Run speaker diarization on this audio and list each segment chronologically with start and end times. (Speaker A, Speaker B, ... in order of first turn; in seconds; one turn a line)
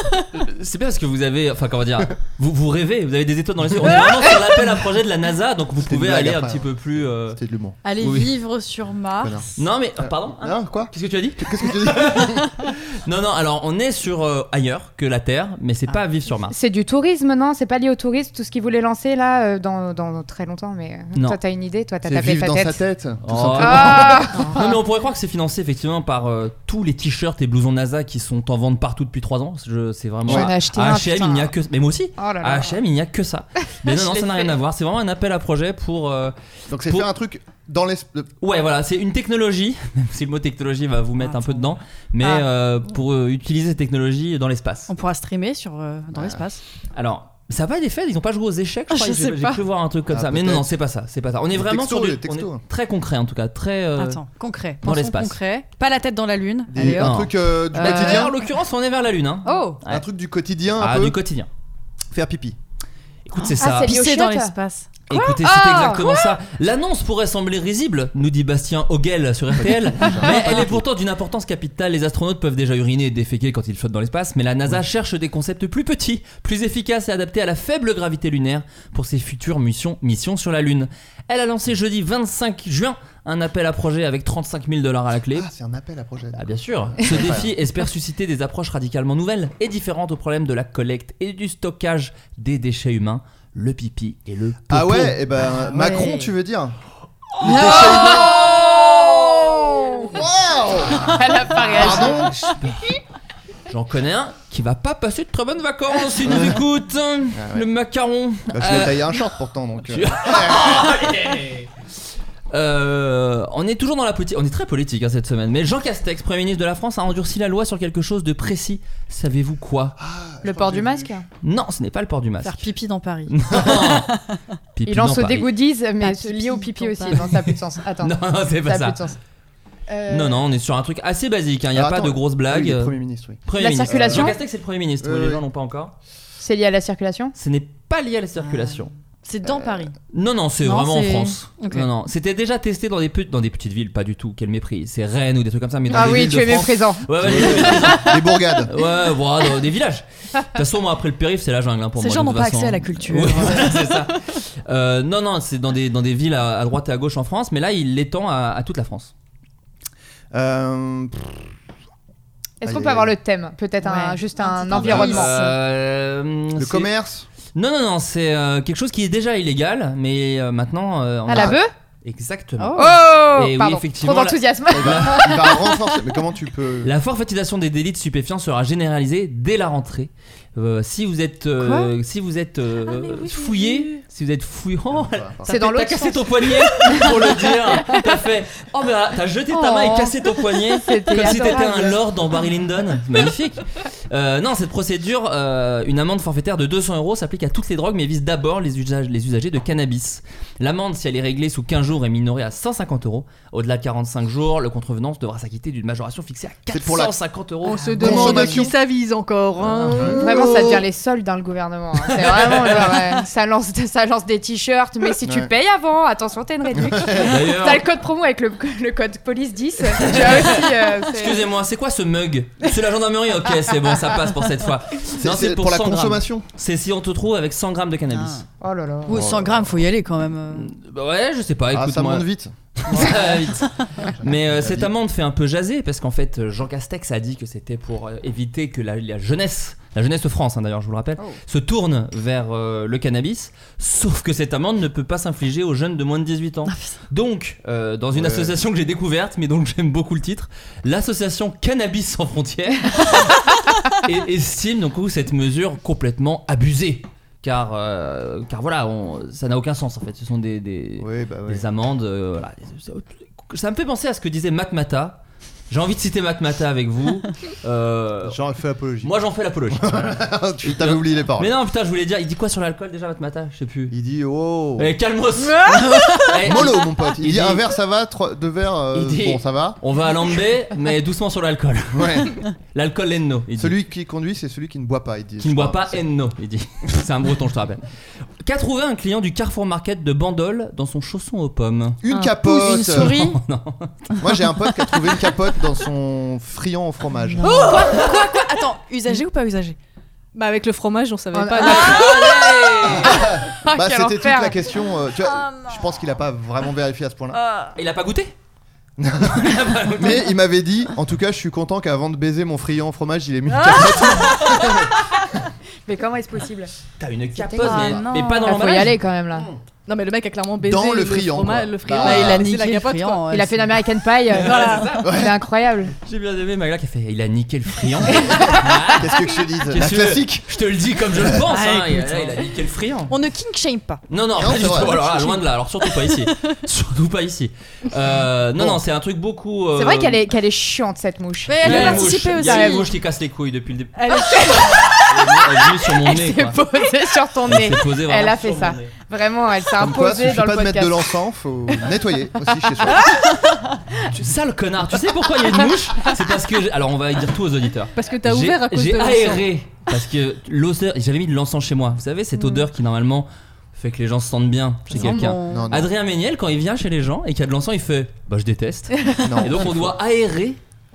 Speaker A: 0.3-7.4
Speaker B: 5.8-7.8
Speaker C: 7.8-9.5
Speaker A: 8.0-8.3
Speaker B: 9.2-9.5
Speaker A: 9.6-16.5
Speaker B: 10.0-12.5
Speaker D: 16.5-22.8
Speaker B: 22.0-24.4
Speaker A: 23.2-36.3
Speaker D: 23.6-24.7
Speaker B: 30.2-30.5
Speaker D: 30.3-31.5
Speaker D: 32.2-32.8
Speaker D: 33.8-34.4
Speaker B: 36.7-38.3
Speaker A: 38.4-44.9
Speaker C: 41.2-41.6
Speaker C: 42.2-42.5
Speaker C: 44.9-46.6
Speaker B: 46.1-46.4
Speaker A: 46.9-54.2
Speaker C: 48.9-49.6
Speaker B: 50.1-50.7
Speaker B: 51.5-52.6
Speaker C: 54.0-58.4
Speaker A: 54.8-55.4
Speaker B: 56.7-58.3
Speaker A: 56.8-60.0
Speaker C: 59.4-59.8
Speaker B: 59.9-61.1
Speaker A: 60.8-61.5
Speaker B: 62.1-62.6
Speaker A: 63.2-63.9
Speaker C: 63.4-65.4
Speaker D: 63.6-64.5
Speaker A: 65.1-85.5
Speaker D: 65.4-66.3
Speaker B: 69.6-70.9
Speaker B: 85.3-87.5
Speaker A: 86.3-95.2
Speaker B: 94.7-96.8
Speaker C: 95.7-96.3
Speaker B: 97.4-98.5
Speaker A: 97.4-99.6
Speaker B: 100.1-102.4
Speaker D: 101.1-102.2
Speaker A: 101.8-102.8
Speaker A: 103.7-109.2
Speaker B: 106.2-106.6
Speaker B: 107.3-107.7
Speaker B: 108.5-110.9
Speaker A: 109.9-111.7
Speaker A: 112.5-120.0
Speaker B: 120.0-121.1
Speaker D: 120.4-121.2
Speaker A: 121.4-122.7
Speaker C: 122.4-124.3
Speaker A: 123.3-124.1
Speaker A: 124.8-125.5
Speaker D: 124.8-129.2
Speaker C: 126.0-127.3
Speaker A: 128.0-129.0
Speaker D: 129.9-130.4
Speaker A: 130.1-135.9
Speaker B: 131.7-134.4
Speaker D: 133.6-134.4
Speaker B: 135.0-135.4
Speaker D: 136.4-137.3
Speaker A: 137.3-138.9
Speaker C: 138.4-140.0
Speaker A: 140.1-159.1
Speaker C: 140.6-141.9
Speaker D: 145.9-147.5
Speaker B: 147.2-148.7
Speaker C: 152.0-153.9
Speaker B: 160.3-161.4
Speaker D: 162.6-165.3
Speaker B: 162.6-163.1
Speaker C: 163.8-165.5
Speaker A: 164.8-166.9
Speaker B: 166.6-167.3
Speaker A: 167.5-175.4
Speaker D: 171.2-171.7
Speaker C: 172.6-173.0
Speaker D: 172.8-175.7
Speaker B: 174.7-176.9
Speaker A: 176.8-208.5
Speaker C: 181.6-181.9
Speaker E: 183.4-183.8
Speaker B: 184.9-185.5
Speaker D: 185.4-186.3
Speaker D: 189.5-190.2
Speaker D: 190.7-192.0
Speaker B: 206.7-207.2
Speaker E: 207.6-210.4
Speaker B: 208.0-208.7
Speaker B: 209.9-210.8
Speaker D: 210.2-221.4
Speaker A: 212.0-213.1
Speaker B: 215.2-215.5
Speaker B: 216.7-217.4
Speaker A: 217.2-217.8
Speaker A: 219.9-228.4
Speaker B: 225.2-226.4
Speaker C: 228.1-228.4
Speaker D: 228.6-229.2
Speaker C: 229.1-230.7
Speaker B: 229.1-229.8
Speaker A: 230.5-232.2
Speaker B: 231.7-233.4
Speaker A: 232.8-253.3
Speaker B: 234.0-234.9
Speaker C: 246.7-246.9
Speaker B: 248.1-248.6
Speaker A: 254.0-268.4
Speaker B: 261.0-261.6
Speaker B: 268.2-271.5
Speaker A: 269.0-273.9
Speaker B: 273.9-274.9
Speaker A: 274.8-277.6
Speaker C: 275.5-276.4
Speaker B: 276.4-279.8
Speaker A: 278.9-283.8
Speaker B: 281.9-282.3
Speaker B: 283.6-286.0
Speaker A: 285.4-287.8
Speaker A: 288.4-292.0
Speaker B: 292.0-293.2
Speaker C: 292.1-293.4
Speaker A: 292.9-293.9
Speaker B: 294.2-297.5
Speaker C: 297.4-299.8
Speaker E: 300.3-302.2
Speaker D: 301.3-302.5
Speaker A: 301.6-303.3
Speaker B: 302.9-307.4
Speaker D: 303.3-304.6
Speaker C: 305.4-305.7
Speaker C: 307.3-307.7
Speaker A: 307.8-308.3
Speaker B: 309.0-314.9
Speaker A: 309.2-310.3
Speaker E: 313.5-314.3
Speaker A: 314.4-314.8
Speaker D: 315.9-316.7
Speaker A: 317.0-319.0
Speaker D: 317.3-319.5
Speaker C: 317.6-318.9
Speaker B: 319.3-319.6
Speaker E: 319.9-323.3
Speaker B: 320.6-322.5
Speaker C: 321.9-323.7
Speaker D: 323.3-325.9
Speaker A: 324.3-325.1
Speaker E: 324.4-324.9
Speaker B: 325.0-325.4
Speaker A: 326.0-333.1
Speaker B: 328.3-330.5
Speaker B: 331.1-331.4
Speaker C: 331.4-332.5
Speaker C: 333.1-334.0
Speaker A: 334.1-340.3
Speaker B: 334.4-335.1
Speaker C: 334.9-336.3
Speaker B: 338.6-338.8
Speaker D: 339.8-342.9
Speaker C: 341.4-342.9
Speaker A: 341.6-346.6
Speaker C: 344.0-344.6
Speaker D: 344.5-351.1
Speaker A: 347.4-348.9
Speaker B: 349.8-353.2
Speaker A: 353.9-370.6
Speaker E: 357.9-359.4
Speaker C: 364.9-365.7
Speaker B: 364.9-365.9
Speaker B: 369.2-369.9